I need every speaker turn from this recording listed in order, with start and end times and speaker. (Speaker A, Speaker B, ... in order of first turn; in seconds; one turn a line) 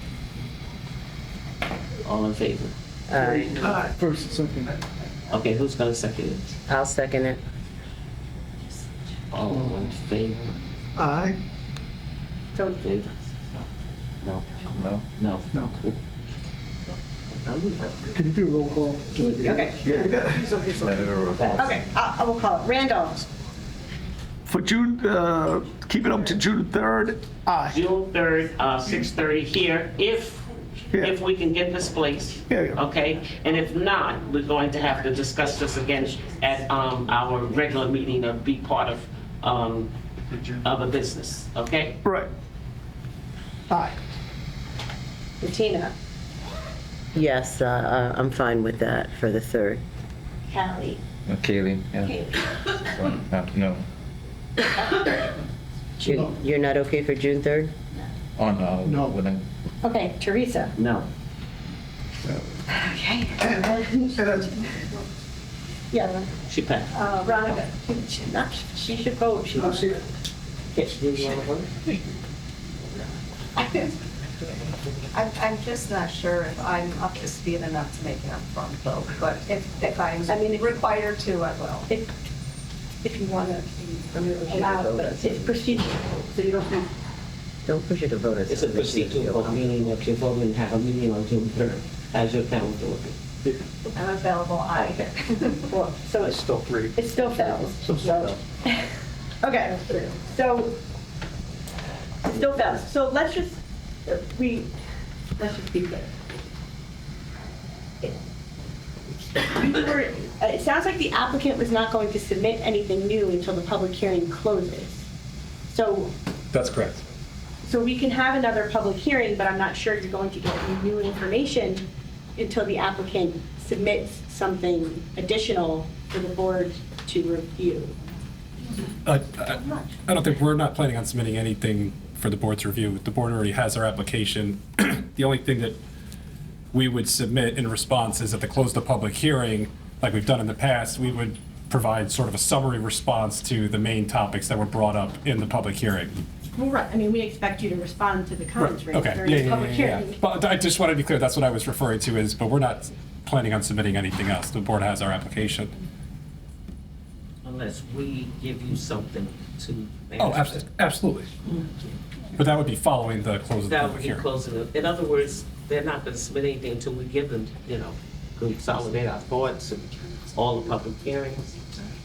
Speaker A: 2.0-2.7
Speaker B: 3.1-3.8
Speaker C: 3.4-4.7
Speaker A: 5.3-6.5
Speaker B: 6.7-7.4
Speaker A: 9.3-10.5
Speaker C: 11.0-11.4
Speaker D: 12.5-12.8
Speaker A: 12.8-13.1
Speaker E: 14.7-15.0
Speaker A: 15.2-16.0
Speaker A: 17.3-18.0
Speaker C: 18.2-18.8
Speaker D: 19.1-20.2
Speaker C: 19.8-20.6
Speaker A: 20.1-21.7
Speaker E: 20.8-21.6
Speaker D: 21.5-23.2
Speaker C: 24.4-27.8
Speaker A: 27.7-30.4
Speaker A: 31.0-39.9
Speaker C: 32.5-32.8
Speaker A: 40.6-42.0
Speaker C: 42.0-42.3
Speaker C: 43.7-44.0
Speaker D: 45.4-45.9
Speaker B: 47.1-49.8
Speaker D: 50.5-51.0
Speaker E: 51.2-52.1
Speaker D: 52.0-52.6
Speaker E: 52.9-53.8
Speaker D: 54.8-55.1
Speaker B: 56.0-57.7
Speaker D: 56.0-56.3
Speaker E: 58.4-59.5
Speaker D: 59.8-60.7
Speaker A: 60.8-61.1
Speaker D: 62.7-64.7
Speaker C: 64.2-64.5
Speaker D: 65.9-66.3
Speaker A: 66.5-66.9
Speaker D: 66.9-70.1
Speaker C: 69.5-70.0
Speaker A: 70.7-71.7
Speaker F: 75.1-81.9
Speaker D: 80.2-80.8
Speaker D: 83.0-86.9
Speaker B: 84.4-85.5
Speaker B: 87.7-89.6
Speaker A: 88.5-93.2
Speaker D: 93.9-96.4
Speaker F: 94.5-94.8
Speaker C: 96.5-96.9
Speaker D: 96.9-98.9
Speaker C: 97.8-98.3
Speaker D: 99.4-100.8
Speaker D: 102.2-104.7
Speaker D: 105.4-106.1
Speaker D: 109.3-115.0
Speaker D: 115.7-116.1
Speaker G: 116.5-117.0
Speaker D: 117.6-127.9
Speaker G: 129.0-135.8
Speaker G: 136.7-146.2
Speaker D: 146.5-150.2
Speaker G: 148.6-155.7
Speaker A: 157.4-160.6
Speaker G: 160.2-161.3
Speaker G: 162.4-164.2
Speaker A: 163.7-171.6